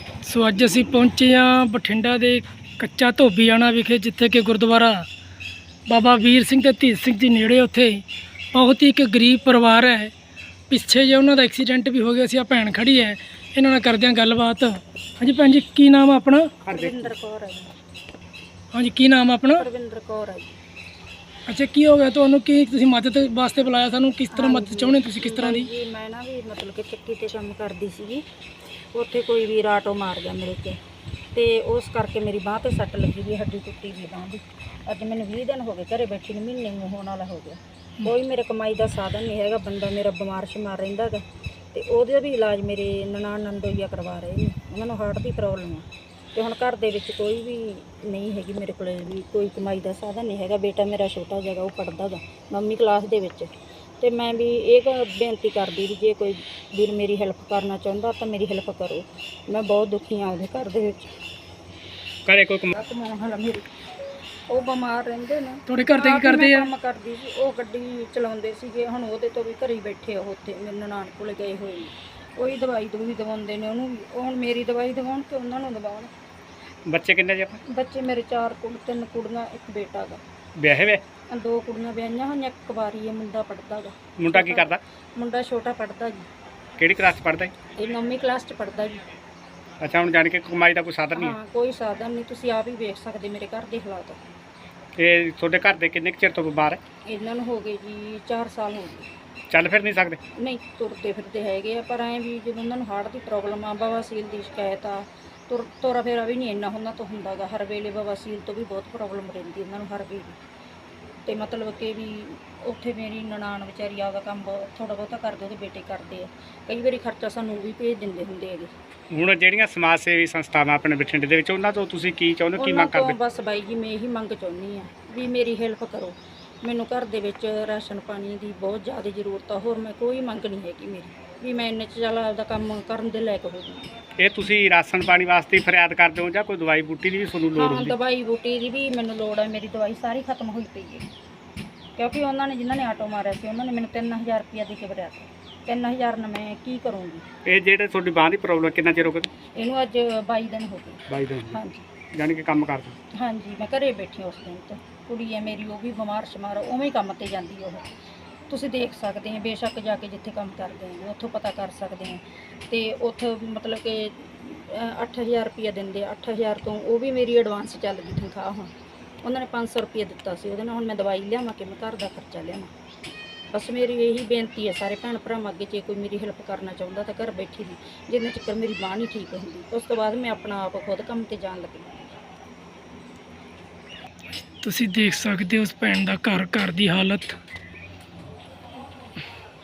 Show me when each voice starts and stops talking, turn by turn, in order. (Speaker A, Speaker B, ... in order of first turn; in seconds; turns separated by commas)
Speaker A: 0.2-5.1, Speaker A: 5.9-8.0, Speaker A: 8.5-10.1, Speaker A: 10.7-16.5, Speaker B: 16.6-17.1, Speaker C: 16.7-17.7, Speaker A: 18.7-19.6, Speaker C: 19.5-20.6, Speaker A: 21.5-25.7, Speaker C: 24.3-28.2, Speaker C: 28.9-30.8, Speaker C: 31.3-61.1, Speaker B: 62.3-62.7, Speaker C: 62.7-63.7, Speaker C: 64.5-76.1, Speaker A: 65.7-66.7, Speaker B: 76.9-77.6, Speaker C: 77.7-80.2, Speaker B: 80.6-81.0, Speaker C: 81.3-86.3, Speaker B: 84.2-84.8, Speaker B: 86.8-87.5, Speaker C: 87.8-89.0, Speaker B: 89.8-91.4, Speaker C: 91.1-94.2, Speaker B: 95.0-96.8, Speaker C: 97.1-99.1, Speaker B: 99.5-100.2, Speaker C: 100.3-110.4, Speaker C: 111.3-118.7, Speaker B: 119.1-123.2, Speaker C: 122.6-133.9, Speaker B: 134.2-138.0, Speaker C: 137.6-141.1, Speaker C: 142.0-147.2, Speaker B: 147.4-149.3, Speaker C: 149.6-151.9, Speaker B: 151.1-151.6, Speaker B: 152.1-153.0, Speaker C: 153.1-157.9, Speaker C: 158.5-168.7, Speaker C: 169.2-172.7, Speaker C: 173.5-182.2, Speaker A: 184.6-187.4